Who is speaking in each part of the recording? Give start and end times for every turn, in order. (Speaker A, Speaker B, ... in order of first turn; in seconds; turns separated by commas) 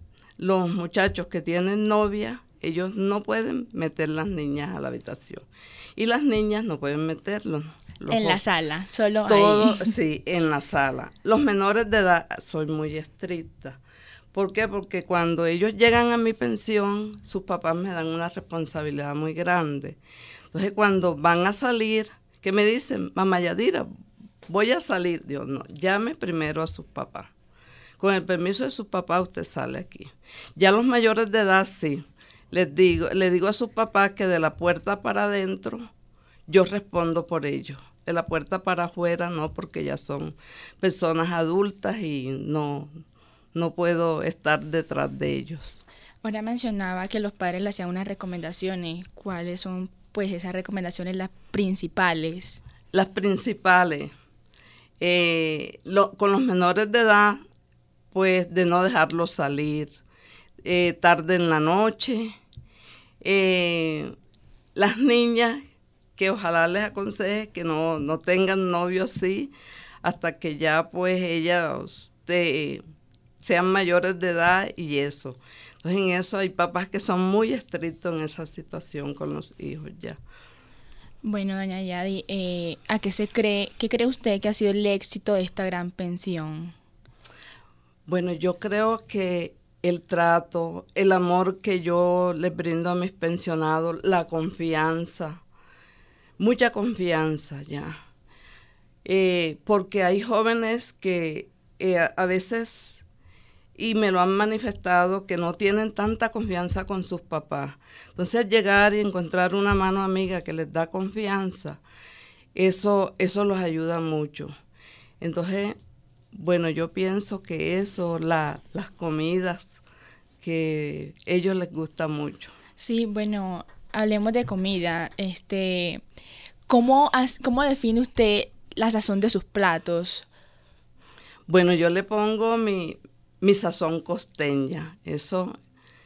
Speaker A: 0.4-5.5, Speaker A: 6.0-8.4, Speaker B: 8.1-9.9, Speaker A: 9.3-13.8, Speaker A: 14.3-20.0, Speaker A: 20.5-23.9, Speaker A: 24.5-27.3, Speaker A: 28.0-35.9, Speaker A: 36.5-42.9, Speaker A: 43.5-45.8, Speaker B: 46.2-52.6, Speaker A: 52.9-54.1, Speaker A: 55.0-57.4, Speaker A: 58.1-60.0, Speaker A: 60.6-62.4, Speaker A: 63.2-64.1, Speaker A: 64.8-65.6, Speaker A: 66.2-72.8, Speaker A: 73.4-80.2, Speaker B: 81.2-86.7, Speaker A: 88.1-95.4, Speaker A: 96.4-98.0, Speaker A: 99.0-103.0, Speaker A: 103.8-111.8, Speaker A: 112.6-114.5, Speaker A: 115.2-115.8, Speaker A: 116.3-119.8, Speaker A: 120.4-122.5, Speaker B: 122.8-126.0, Speaker B: 126.7-130.3, Speaker A: 131.5-135.6